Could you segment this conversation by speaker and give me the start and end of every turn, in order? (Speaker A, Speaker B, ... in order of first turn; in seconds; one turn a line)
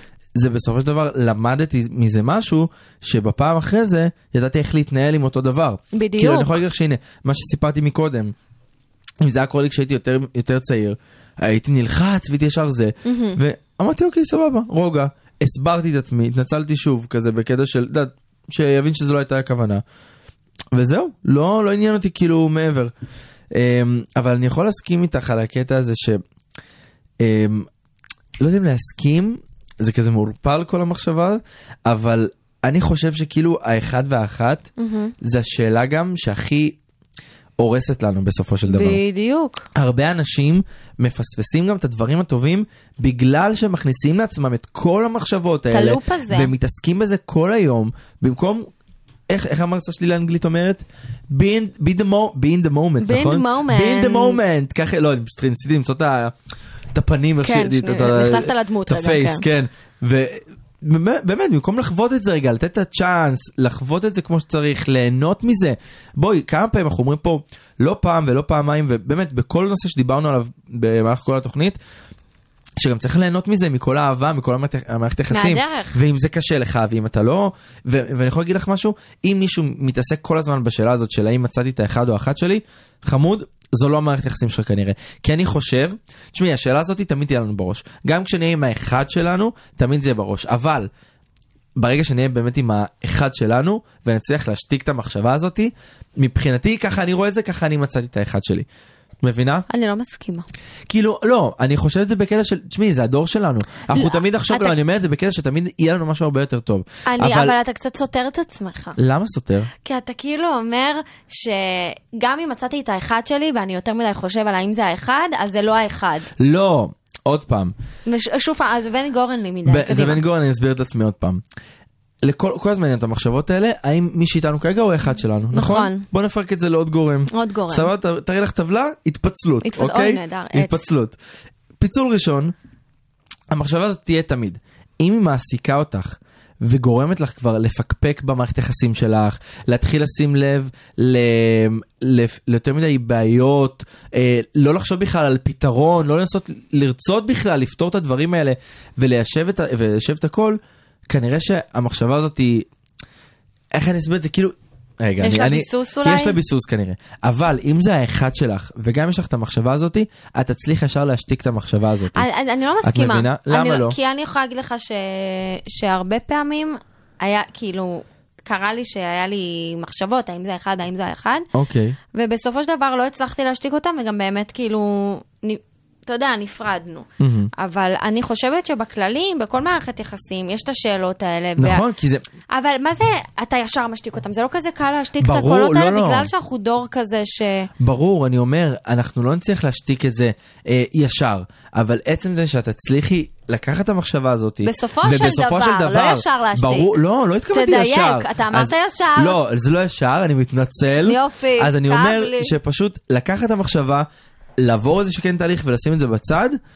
Speaker A: 0.3-8.3
Speaker B: 5.9-6.5
Speaker A: 9.2-19.8
Speaker B: 13.0-13.4
Speaker A: 20.7-22.9
Speaker A: 23.5-26.2
Speaker A: 27.2-27.7
Speaker A: 28.4-34.7
Speaker B: 34.8-35.1
Speaker A: 35.2-36.8
Speaker A: 37.6-39.0
Speaker B: 38.7-39.6
Speaker A: 39.7-48.7
Speaker B: 45.7-46.5
Speaker A: 49.3-56.3
Speaker B: 53.0-54.4
Speaker A: 56.9-71.8
Speaker B: 57.4-59.4
Speaker A: 72.8-90.9
Speaker B: 75.3-76.0
Speaker A: 91.8-98.7
Speaker A: 99.2-99.7
Speaker B: 99.7-100.5
Speaker A: 100.9-107.5
Speaker B: 103.9-104.7
Speaker B: 107.0-109.0
Speaker A: 109.0-109.7
Speaker B: 109.8-116.3
Speaker A: 116.4-117.7
Speaker B: 118.0-120.2
Speaker A: 119.6-121.4
Speaker A: 122.2-131.2
Speaker B: 125.5-126.0
Speaker B: 127.3-127.9
Speaker B: 129.6-130.8
Speaker A: 131.8-132.5
Speaker A: 133.5-152.7
Speaker A: 153.7-162.3
Speaker B: 155.2-156.4
Speaker B: 162.1-171.4
Speaker A: 162.8-164.0
Speaker A: 171.5-172.0
Speaker B: 172.1-181.8
Speaker A: 177.2-177.5
Speaker A: 181.6-182.2
Speaker B: 182.5-187.7
Speaker A: 185.2-186.3
Speaker A: 187.8-204.1
Speaker B: 194.6-197.0
Speaker B: 197.5-199.4
Speaker B: 201.0-202.5
Speaker A: 204.6-206.6